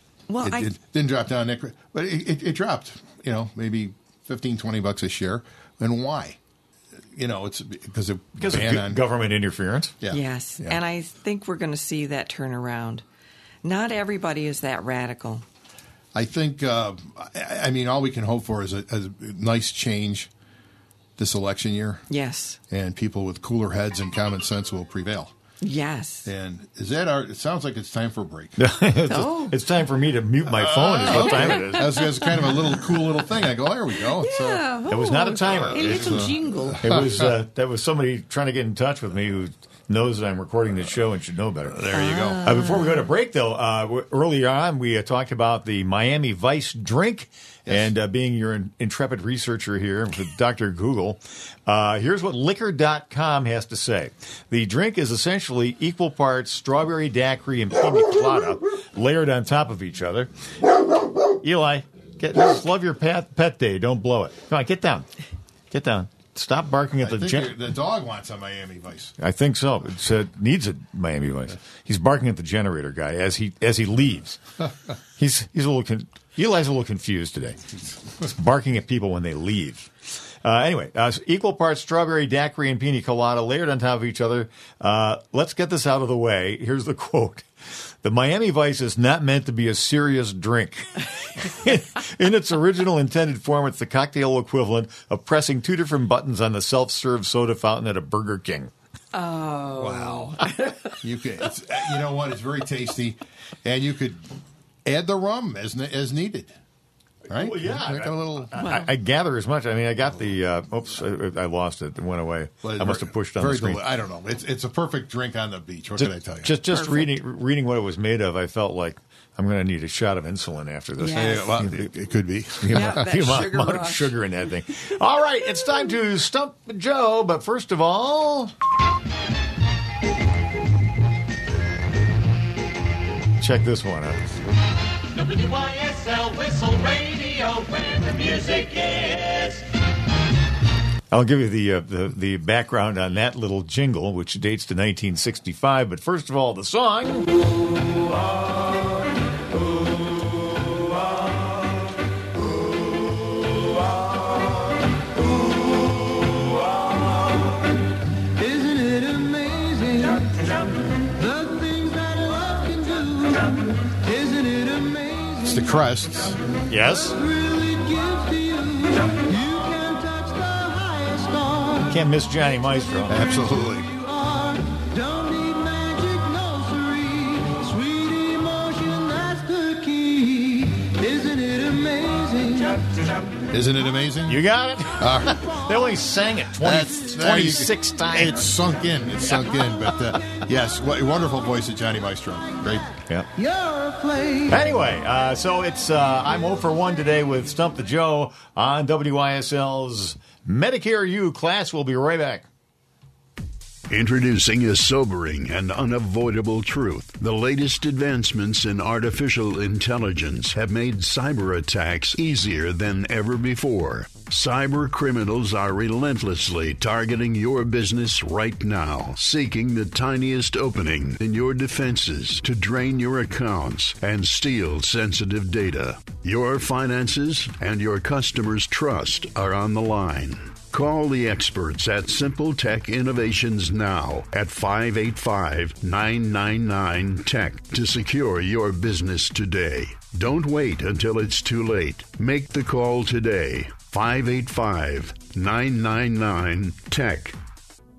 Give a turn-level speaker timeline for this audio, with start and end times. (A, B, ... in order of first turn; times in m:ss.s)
0:00.3-0:00.7 A
0:00.4-0:06.4 B
0:07.1-0:09.0 B
0:08.4-0:10.0 C
0:10.0-0:10.8 B
0:10.1-0:13.0 A
0:13.6-0:15.4 A
0:16.1-0:20.3 B
0:21.2-0:22.0 B
0:22.1-0:22.6 A
0:22.7-0:25.3 B
0:25.6-0:26.3 A
0:26.2-0:28.6 B
0:28.6-0:32.0 C
0:29.1-0:29.6 A
0:30.5-0:34.7 B
0:31.1-0:33.0 A
0:34.2-0:37.0 A
0:34.9-0:41.8 C
0:35.4-0:37.3 B
0:41.7-0:42.5 B
0:41.9-0:43.1 A
0:42.4-1:00.3 C
0:47.7-0:47.9 B
1:01.4-1:05.1 C
1:05.7-1:07.5 C
1:07.0-1:09.1 B
1:09.2-1:14.4 C
1:15.2-1:17.6 C
1:18.2-1:19.9 C
1:20.4-1:27.5 C
1:28.0-1:38.7 C
1:39.1-1:40.7 A
1:39.8-1:40.4 B
1:41.0-1:44.3 B
1:44.8-1:46.5 B
1:47.3-1:48.6 B
1:47.3-1:53.8 C
1:48.6-1:48.9 A
1:52.6-1:56.6 B
1:56.0-2:01.9 C
1:56.7-1:57.1 A
2:01.0-2:01.5 A
2:01.1-2:03.1 B
2:02.6-2:08.5 C
2:02.7-2:04.1 A
2:13.4-2:14.3 C
2:15.2-2:19.6 D
2:21.1-2:27.3 C
2:38.4-2:40.4 E
2:41.2-2:45.6 E
2:45.4-2:46.4 B
2:46.7-2:47.2 C
2:47.2-2:52.0 E
2:51.9-2:53.3 C
2:53.1-2:53.9 B
2:53.5-3:02.8 E
3:03.5-3:04.4 B
3:04.3-3:08.4 C
3:05.0-3:05.4 B
3:06.6-3:12.9 B
3:13.4-3:14.6 E
3:14.5-3:22.4 C
3:23.9-4:07.4 F